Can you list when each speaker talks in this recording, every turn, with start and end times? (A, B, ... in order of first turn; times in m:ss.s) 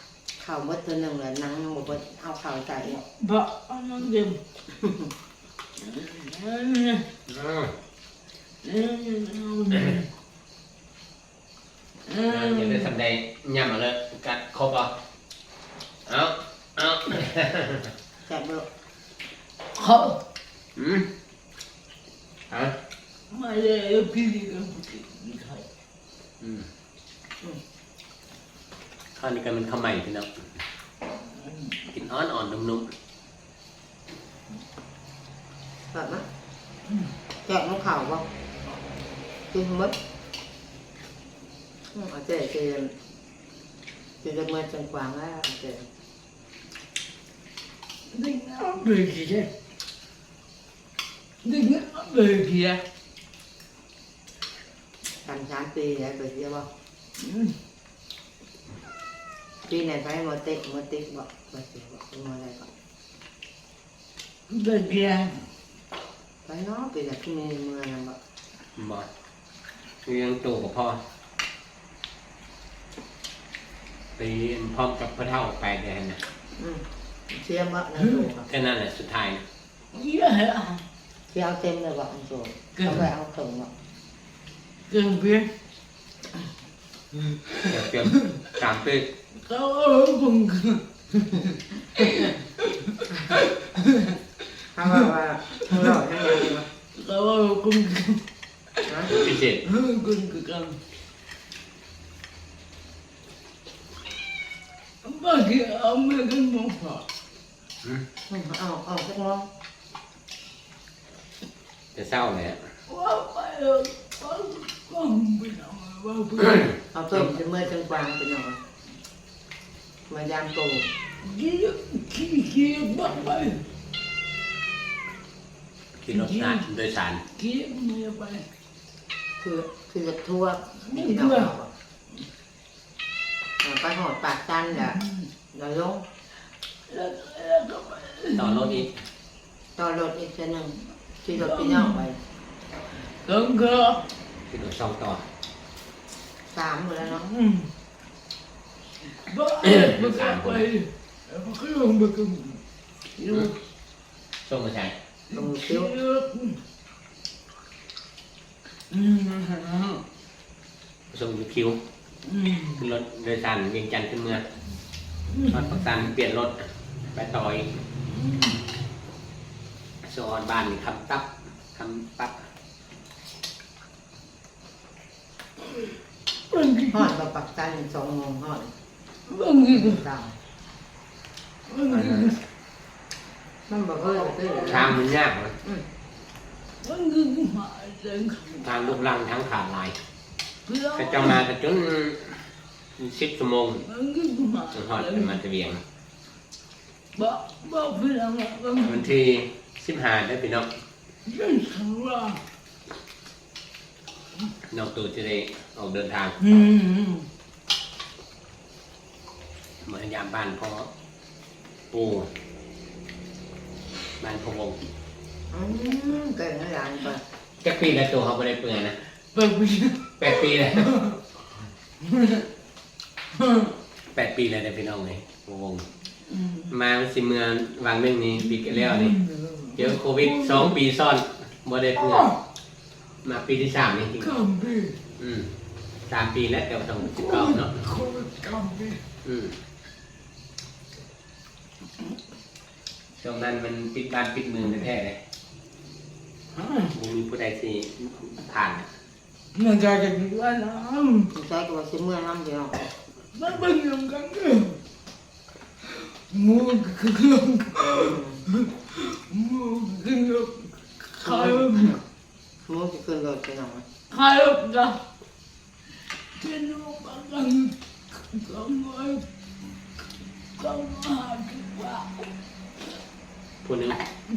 0:00.4-0:03.0 A
0:02.9-0:04.4 B
0:04.7-0:05.1 A
0:05.8-0:07.1 B
0:07.3-0:07.7 C
0:08.6-0:10.0 B
0:12.1-0:12.9 B
0:12.3-0:14.9 C
0:16.1-0:17.9 C
0:18.2-0:18.6 A
0:19.7-0:20.2 B
0:20.8-0:21.1 C
0:22.5-0:22.7 C
0:23.3-0:25.7 B
0:26.4-0:26.7 C
0:29.2-0:30.3 C
0:31.9-0:32.9 C
0:35.9-0:36.2 A
0:37.4-0:38.2 A
0:39.5-0:39.9 A
0:41.9-0:42.9 A
0:44.2-0:45.9 A
0:48.1-0:49.5 B
0:51.4-0:52.8 B
0:55.2-0:56.7 A
0:57.2-0:57.5 B
0:59.6-1:02.7 A
1:04.5-1:05.5 B
1:06.4-1:08.2 A
1:08.8-1:09.1 C
1:10.0-1:11.0 C
1:14.2-1:16.2 C
1:16.6-1:18.5 A
1:18.5-1:19.4 C
1:19.9-1:20.8 B
1:21.3-1:23.7 A
1:22.8-1:23.0 B
1:24.9-1:25.5 B
1:27.5-1:29.1 C
1:29.4-1:34.2 B
1:34.7-1:36.6 A
1:35.6-1:36.0 B
1:36.9-1:38.2 B
1:38.8-1:40.8 B
1:38.9-1:39.1 A
1:39.1-1:39.6 C
1:45.0-1:47.0 B
1:48.3-1:49.5 A
1:51.9-1:52.6 C
1:52.9-1:56.7 B
1:56.9-1:58.6 A
2:00.1-2:00.9 A
2:01.2-2:03.6 B
2:06.0-2:07.2 C
2:06.1-2:06.6 B
2:07.3-2:08.4 B
2:09.4-2:11.7 A
2:10.8-2:11.5 B
2:13.6-2:15.0 A
2:14.8-2:15.2 B
2:15.5-2:16.0 A
2:16.9-2:18.8 B
2:18.3-2:19.0 C
2:19.8-2:22.2 A
2:21.3-2:22.0 B
2:23.0-2:24.0 B
2:24.5-2:25.2 C
2:26.5-2:27.3 A
2:27.1-2:27.7 B
2:29.0-2:32.6 B
2:29.6-2:30.7 C
2:33.2-2:33.6 B
2:34.4-2:34.9 C
2:35.3-2:36.6 B
2:35.3-2:35.9 A
2:38.9-2:40.0 B
2:41.1-2:41.8 C
2:42.2-2:42.8 B
2:42.5-2:44.4 C
2:45.3-2:45.7 B
2:45.5-2:47.8 C
2:48.1-2:48.6 B
2:50.0-2:52.4 C
2:56.5-2:57.1 B
2:56.9-2:58.7 A
2:59.3-3:00.0 B
2:59.7-3:00.4 A
3:01.7-3:02.4 B
3:01.9-3:02.4 C
3:03.7-3:05.0 A
3:04.2-3:05.0 B
3:04.6-3:05.5 C
3:06.8-3:09.0 B
3:08.6-3:10.0 C
3:10.6-3:11.4 B
3:10.9-3:13.8 C
3:13.8-3:15.4 B
3:14.7-3:15.8 C
3:17.1-3:19.0 B
3:18.8-3:20.7 C
3:21.2-3:22.4 B
3:24.7-3:26.4 C
3:26.4-3:27.3 B
3:29.8-3:30.9 C
3:31.9-3:32.3 C
3:34.2-3:34.8 C
3:35.5-3:37.2 A
3:37.6-3:39.0 C
3:39.3-3:41.2 B
3:40.2-3:41.0 C
3:42.1-3:42.4 B
3:43.4-3:43.7 B
3:44.0-3:45.9 C
3:46.3-3:46.7 B
3:46.7-3:49.2 C
3:48.5-3:50.7 B
3:49.7-3:52.3 C
3:52.0-3:52.4 B
3:53.2-3:54.4 C
3:54.2-3:55.0 B
3:55.2-3:55.5 C
3:56.1-3:57.8 C
3:57.0-3:59.0 B
3:59.2-3:59.6 C
4:03.2-4:05.2 C
4:06.5-4:06.9 B
4:06.9-4:08.9 C
4:09.5-4:11.3 B
4:11.3-4:12.8 A
4:13.3-4:14.8 B
4:15.8-4:22.0 B
4:17.8-4:18.4 A
4:21.2-4:22.0 A
4:22.6-4:23.8 A
4:24.1-4:25.0 B
4:26.4-4:29.2 B
4:30.6-4:32.3 B
4:33.6-4:34.0 C